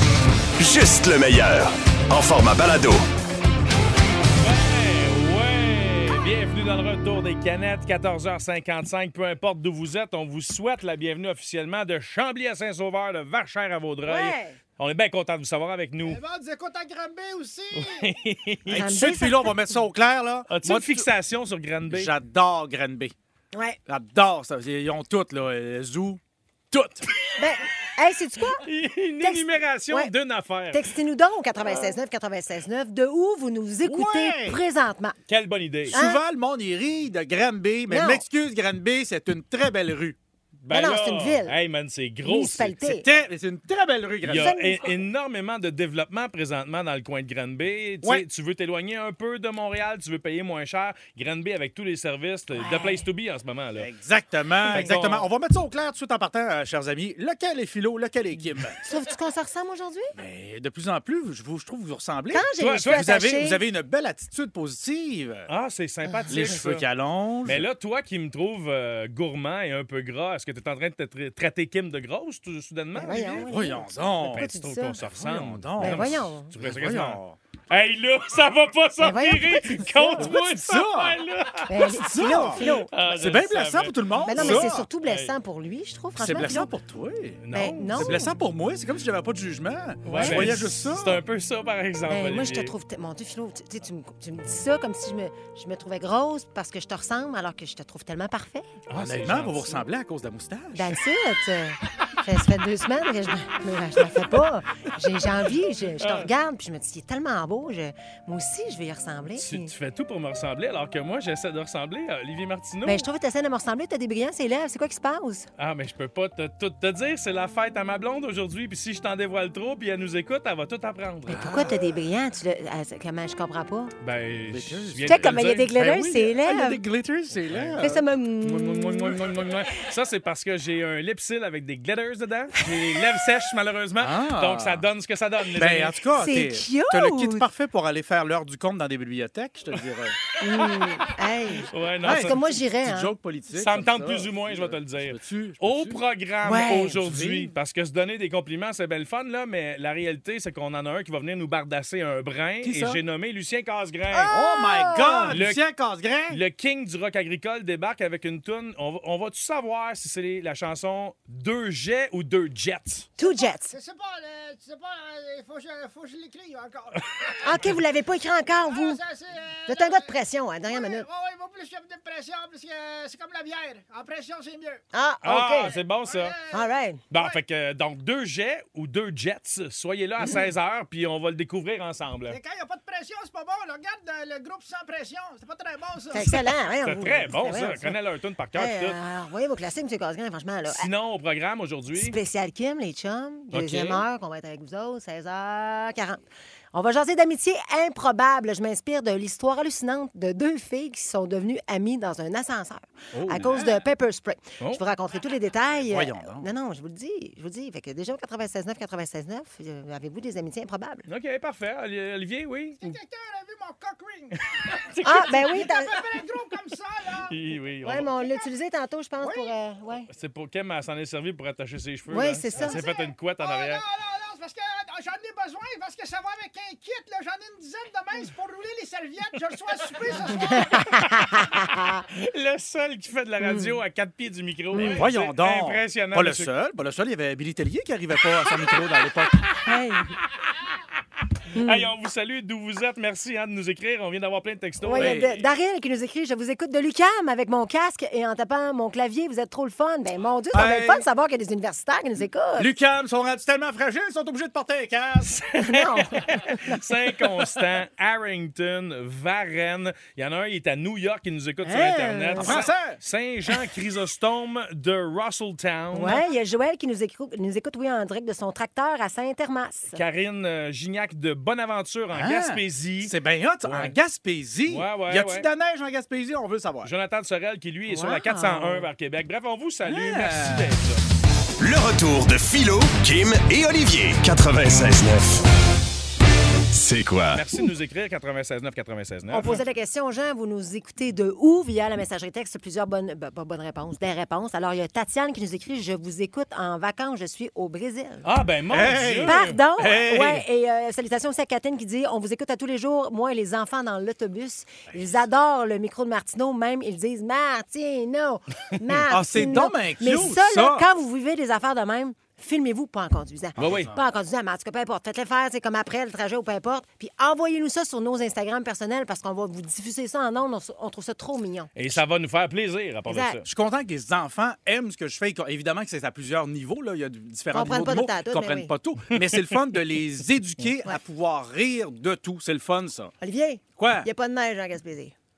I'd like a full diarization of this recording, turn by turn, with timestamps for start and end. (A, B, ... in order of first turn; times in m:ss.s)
0:00.6-0:03.0 A
0:04.4-0:16.2 B
0:14.0-0:14.6 C
0:16.1-0:18.1 D
0:17.7-0:18.8 B
0:18.7-0:21.1 E
0:18.7-0:19.4 C
0:20.5-0:22.1 B
0:21.9-0:23.1 E
0:23.5-0:23.8 C
0:23.8-0:26.2 E
0:26.7-0:27.0 E
0:27.4-0:28.6 C
0:28.6-0:30.9 B
0:29.2-0:30.1 C
0:30.7-0:35.2 C
0:31.7-0:31.9 B
0:33.8-0:34.6 E
0:35.3-0:36.0 B
0:35.9-0:40.2 E
0:35.9-0:36.2 C
0:37.9-0:38.2 C
0:40.6-0:42.8 B
0:40.7-0:41.5 C
0:42.2-0:43.0 C
0:42.8-0:44.5 E
0:44.2-0:53.9 B
0:44.3-0:45.0 C
0:52.5-0:53.0 C
0:53.8-0:58.8 E
0:54.7-0:55.3 B
0:58.8-1:00.1 C
1:00.1-1:05.5 E
1:02.3-1:03.6 C
1:02.6-1:03.1 B
1:05.5-1:06.8 B
1:06.0-1:06.4 C
1:06.3-1:07.6 E
1:07.4-1:13.4 B
1:13.0-1:15.0 C
1:13.1-1:14.4 E
1:14.2-1:25.3 B
1:15.0-1:17.4 E
1:15.8-1:16.5 C
1:19.0-1:20.3 C
1:20.2-1:21.2 E
1:21.7-1:22.9 C
1:21.9-1:24.9 E
1:24.2-1:26.7 C
1:26.2-1:31.2 E
1:27.4-1:28.3 B
1:27.5-1:28.2 C
1:30.0-1:30.6 C
1:30.0-1:32.7 B
1:32.1-1:38.7 C
1:38.9-1:39.8 B
1:38.9-1:41.0 E
1:40.7-1:49.7 C
1:46.0-1:46.3 B
1:49.4-1:53.0 B
1:52.8-1:55.5 C
1:55.6-2:01.7 B
2:01.3-2:01.9 E
2:01.4-2:03.9 C
2:04.0-2:06.2 B
2:04.5-2:05.3 E
2:05.0-2:06.8 C
2:06.0-2:08.0 E
2:07.5-2:07.8 B
2:07.8-2:09.1 C
2:08.4-2:16.0 B
2:14.0-2:14.8 E
2:15.5-2:20.2 E
2:16.2-2:17.4 C
2:20.4-2:23.1 C
2:21.7-2:22.4 B
2:22.0-2:27.5 E
2:23.5-2:34.3 B
2:26.4-2:26.9 C
2:32.6-2:33.0 E
2:34.1-2:35.3 C
2:34.3-2:36.4 E
2:35.3-2:35.6 B
2:36.3-2:43.1 B
2:43.2-2:43.7 C
2:43.2-2:47.6 D
2:47.4-2:49.0 C
2:48.7-2:50.1 D
2:49.7-2:51.0 C
2:50.6-2:54.8 D
2:54.9-2:55.7 C
2:55.2-2:56.3 B
2:55.6-2:57.4 D
2:56.5-2:57.0 C
2:57.1-3:02.4 B
3:02.3-3:06.3 D
3:06.1-3:08.0 C
3:06.8-3:09.0 B
3:08.6-3:10.9 C
3:10.7-3:12.2 B
3:11.9-3:16.2 C
3:13.5-3:14.0 B
3:16.7-3:31.0 C
3:23.2-3:23.7 E
3:25.9-3:26.5 E
3:31.1-3:32.8 B
3:32.8-3:34.4 D
3:34.6-3:35.5 B
3:35.0-3:36.0 C
3:35.4-3:37.3 D
3:37.3-3:38.1 B
3:37.8-3:40.1 C
3:39.2-3:39.5 D
3:40.1-3:43.8 B
3:42.1-3:42.8 C
3:42.6-3:50.8 D
3:50.5-3:52.0 C
3:52.1-3:56.5 B
3:53.4-3:53.7 C
3:54.7-3:55.0 C
3:54.9-3:59.4 E
3:59.6-4:00.1 C
4:01.5-4:01.9 C
4:01.6-4:05.3 B
4:04.8-4:12.7 C
4:04.9-4:05.4 E
4:10.5-4:11.0 E
4:12.6-4:15.4 E
4:15.4-4:26.2 B
4:15.5-4:16.8 C
4:21.6-4:22.7 C
4:22.4-4:23.0 E
4:25.9-4:30.0 C
4:29.9-4:33.1 B
4:32.1-4:36.9 E
4:33.6-4:33.9 B
4:34.7-4:35.5 B
4:36.8-4:41.0 B
4:37.9-4:38.9 C
4:39.8-4:40.7 E
4:41.6-4:45.4 A
4:46.7-4:47.4 A
4:47.3-4:49.6 B
4:49.3-4:58.2 C
4:58.2-4:59.6 B
4:58.7-5:00.4 E
4:59.2-5:21.7 C
5:04.9-5:05.2 E
5:09.1-5:10.9 E
5:13.6-5:13.9 B
5:13.6-5:13.9 E
5:21.8-5:23.4 B
5:23.1-5:23.4 C
5:23.4-5:33.1 E
5:27.5-5:28.7 C
5:33.2-5:35.1 C
5:33.8-5:34.1 E